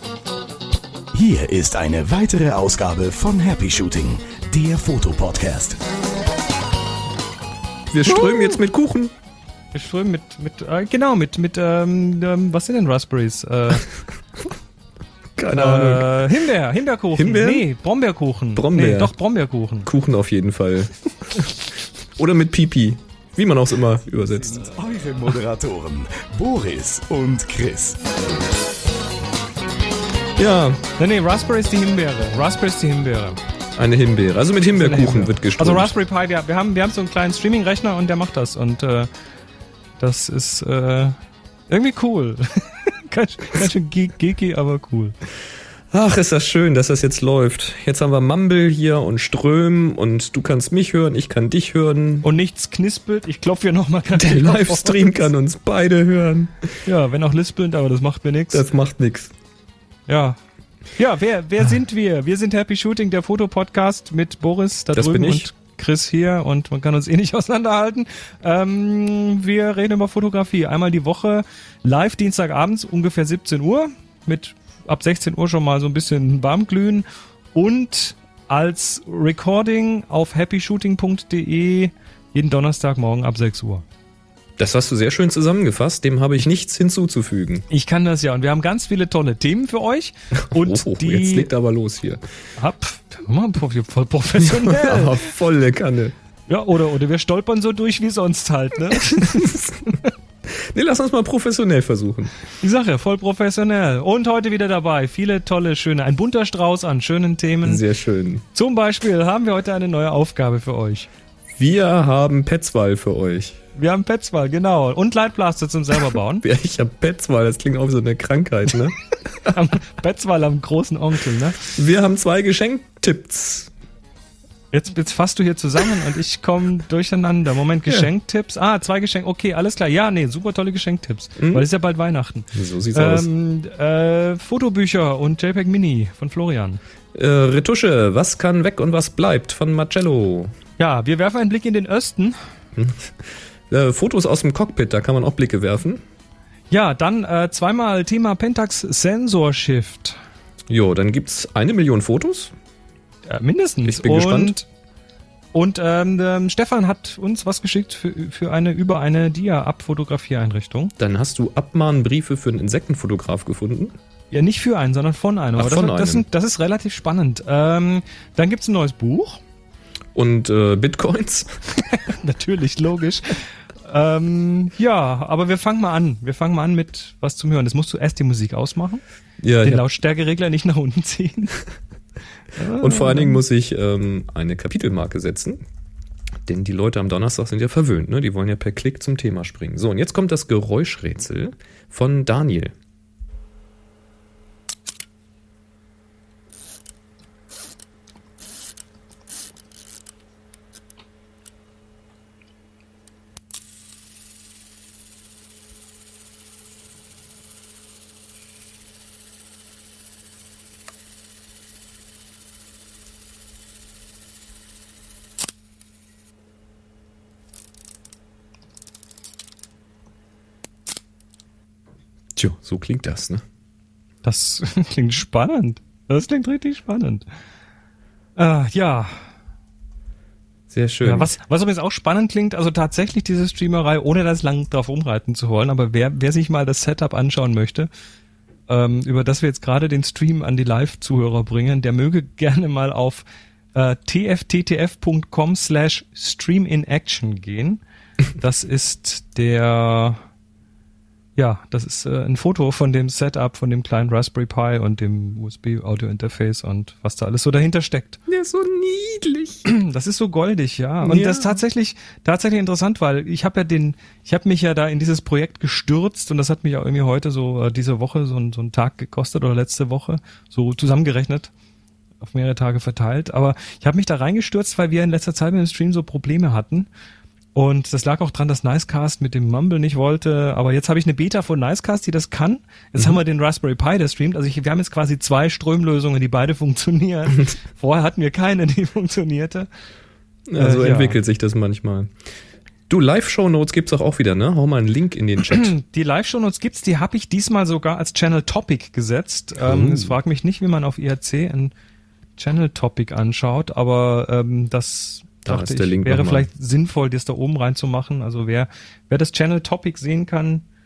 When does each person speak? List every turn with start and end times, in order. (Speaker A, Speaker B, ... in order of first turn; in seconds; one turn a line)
Speaker A: 1.1-5.8
Speaker B: 7.9-9.1
Speaker C: 9.7-13.8
Speaker B: 15.4-16.2
Speaker C: 15.5-19.9
Speaker B: 17.2-17.7
Speaker B: 18.5-19.1
Speaker B: 19.8-21.5
Speaker B: 22.2-24.6
Speaker A: 24.4-28.0
Speaker B: 30.4-30.8
Speaker C: 31.0-33.4
Speaker B: 33.8-35.9
Speaker C: 34.7-39.1
Speaker C: 40.0-41.2
Speaker C: 41.7-45.1
Speaker B: 45.9-52.3
Speaker C: 52.2-55.3
Speaker B: 54.1-56.8
Speaker C: 56.8-58.6
Speaker B: 58.5-59.3
Speaker C: 60.1-60.4
Speaker C: 60.9-83.8
Speaker B: 64.9-65.5
Speaker B: 84.6-87.7
Speaker C: 87.7-91.5
Speaker B: 90.4-92.2
Speaker C: 92.6-95.2
Speaker B: 94.5-96.1
Speaker C: 96.5-99.6
Speaker B: 99.2-99.9
Speaker B: 100.6-102.3
Speaker C: 102.6-107.8
Speaker B: 107.6-108.5
Speaker C: 108.5-111.1
Speaker B: 111.6-113.6
Speaker C: 113.8-116.4
Speaker B: 116.4-119.0
Speaker C: 119.5-121.8
Speaker B: 121.7-123.7
Speaker C: 124.7-136.8
Speaker B: 131.4-131.7
Speaker B: 132.5-133.3
Speaker B: 137.1-140.5
Speaker C: 140.8-142.4
Speaker B: 142.8-143.1
Speaker B: 143.7-146.0
Speaker C: 146.7-150.2
Speaker B: 150.7-152.5
Speaker C: 153.2-154.7
Speaker B: 153.8-154.6
Speaker C: 155.5-160.9
Speaker B: 161.0-163.9
Speaker C: 164.3-169.4
Speaker B: 165.6-166.2
Speaker B: 170.1-171.6
Speaker C: 171.9-179.0
Speaker B: 179.4-179.8
Speaker C: 179.6-181.6
Speaker C: 182.5-183.4
Speaker B: 182.8-185.6
Speaker B: 186.4-192.7
Speaker B: 222.3-223.4
Speaker C: 224.2-227.2
Speaker C: 228.3-229.2
Speaker B: 230.7-231.3
Speaker C: 231.0-237.9
Speaker C: 238.7-247.8
Speaker C: 248.4-250.2
Speaker C: 251.4-258.2
Speaker B: 258.3-259.6
Speaker C: 259.6-271.5
Speaker B: 261.0-261.6
Speaker C: 272.2-276.9
Speaker C: 277.6-289.7
Speaker B: 290.5-292.1
Speaker C: 290.6-291.2
Speaker B: 292.9-295.7
Speaker C: 295.5-301.7
Speaker B: 299.6-300.1
Speaker C: 302.4-310.6
Speaker B: 305.4-306.5